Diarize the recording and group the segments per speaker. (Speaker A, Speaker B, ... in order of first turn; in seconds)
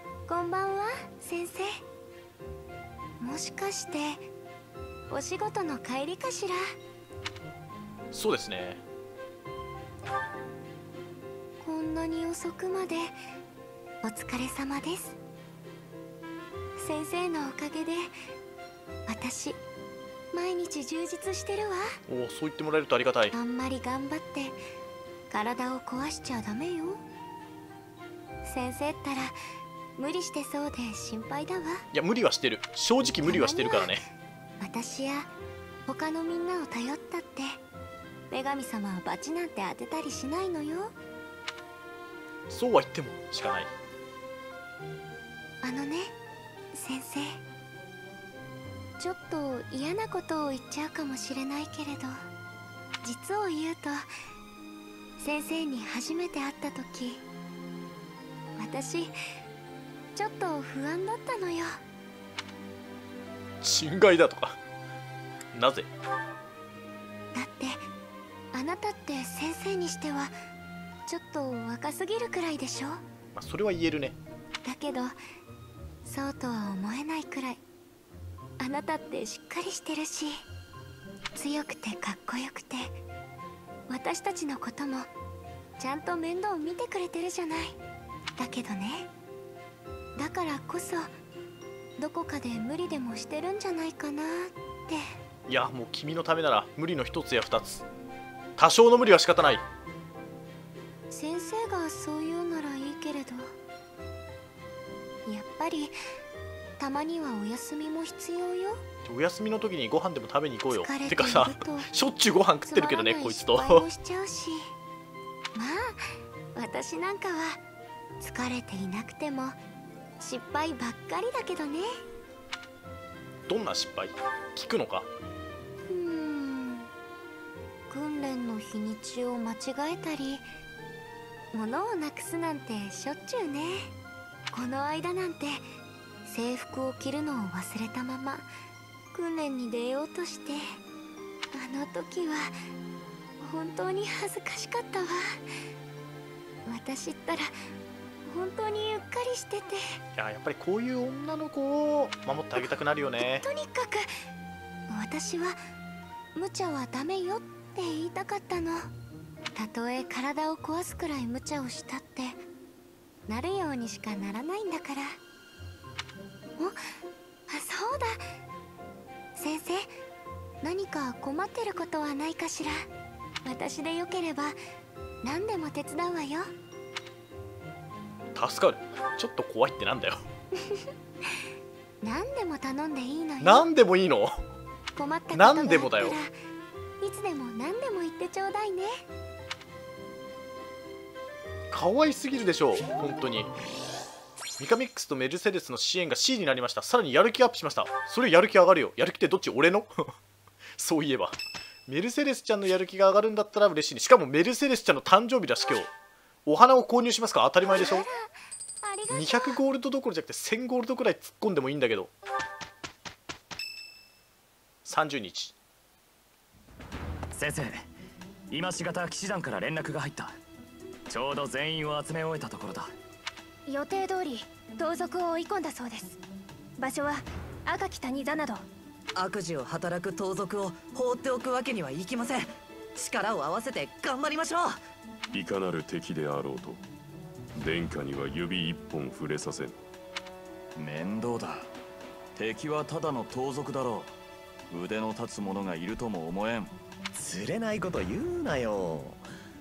Speaker A: 0.3-1.8, 3.2-4.2, 5.1-6.6, 11.6-13.1, 14.0-15.2, 16.8-18.1, 19.1-19.6, 20.3-21.8, 23.3-24.6, 25.3-27.0, 28.4-29.4, 30.0-31.9, 33.2-35.3, 35.9-37.6, 38.3-40.9, 45.6-46.1, 46.7-47.4, 49.0-52.1, 53.0-54.1, 55.2-57.2, 58.6-59.1, 60.2-61.8, 67.3-67.8, 68.5-70.3, 71.1-73.0, 74.6-75.2, 76.0-77.6, 78.6-80.4, 81.4-83.0, 83.9-85.1, 85.8-87.8, 88.4-89.1, 90.2-91.1, 92.0-95.0, 101.1-103.5, 105.3-106.0, 106.8-108.8, 110.7-111.9, 112.7-114.7, 115.5-117.6, 118.2-119.6, 120.2-121.9, 125.9-126.9, 127.9-130.5, 131.5-133.9, 134.5-135.7, 136.3-138.5, 139.1-140.8, 141.5-142.5, 143.4-145.2, 146.7-147.5, 148.3-150.0, 152.6-154.1, 154.9-155.6, 156.3-158.9, 159.6-162.4, 163.3-165.2, 167.5-168.2, 169.4-169.9, 170.6-172.9, 173.4-174.6, 175.2-176.5, 180.6-181.4, 182.0-183.7, 185.0-186.3, 187.0-189.0, 207.7-208.3, 208.8-209.6
Speaker B: 8.1-8.8, 22.1-23.4, 31.9-34.0, 42.5-43.7, 63.6-64.6, 65.5-65.9, 73.4-74.2, 95.5-97.8, 98.6-99.7, 109.0-113.8, 123.5-125.1, 150.2-153.5, 178.3-180.2, 183.4-184.4, 185.3-186.2, 191.7-193.5, 194.6-200.1, 200.8-205.9, 206.4-208.1, 209.1-212.1, 214.8-215.6
Speaker C: 217.3-217.9, 218.5-220.4, 221.1-222.9
Speaker D: 223.7-226.2, 226.8-228.7
Speaker E: 229.2-234.8
Speaker F: 235.3-236.8, 237.6-239.8
Speaker G: 240.8-241.7, 242.3-244.2, 244.7-246.7
Speaker H: 247.1-249.2